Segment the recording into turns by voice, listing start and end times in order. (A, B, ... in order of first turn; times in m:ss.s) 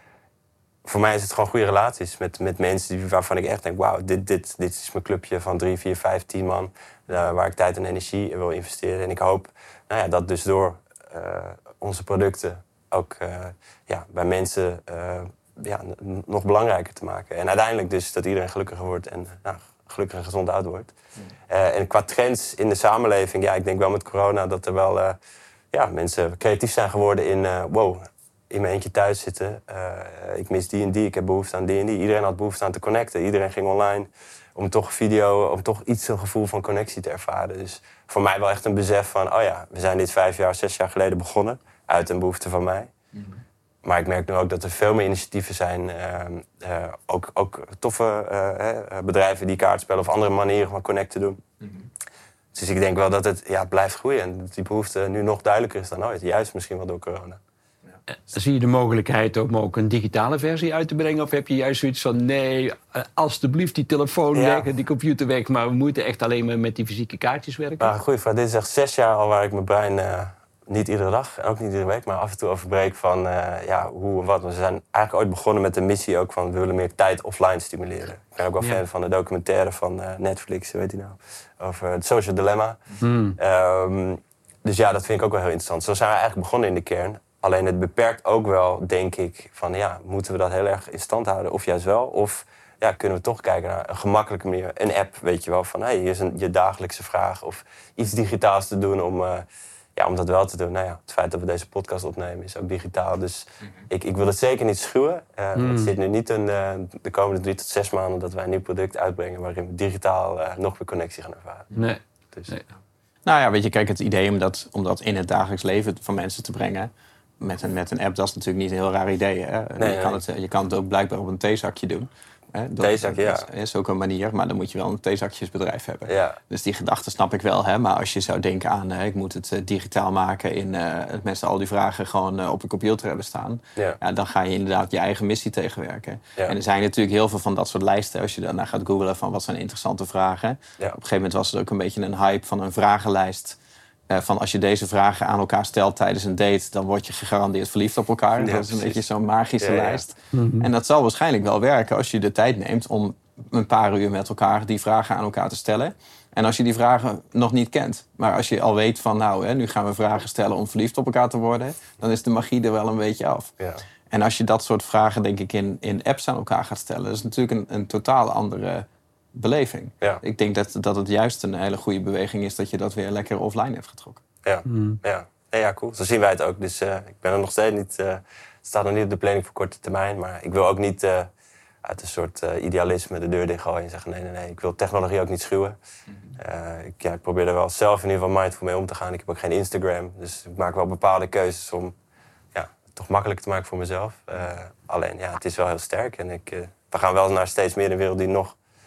0:00.8-0:20.9 A
0:21.5-0:25.2 A
0:25.7-0:42.9 A
0:43.8-0:51.4 A
0:52.5-0:57.4 A
0:58.3-1:07.9 B
1:04.3-1:04.6 A
1:07.8-1:22.8 A
1:23.0-1:23.4 B
1:23.4-1:51.7 A
1:45.6-1:45.9 B
1:51.7-1:52.6 B
1:53.2-2:23.6 C
1:59.8-2:00.2 A
2:02.8-2:03.5 A
2:06.1-2:06.4 A
2:24.1-2:43.5 C
2:28.4-2:29.0 A
2:29.6-2:30.0 A
2:30.3-2:30.7 B
2:44.1-2:54.2 C
2:54.4-3:01.3 A
2:54.6-2:55.0 B
3:01.8-3:05.8 A
3:06.4-3:11.9 A
3:12.5-3:18.6 A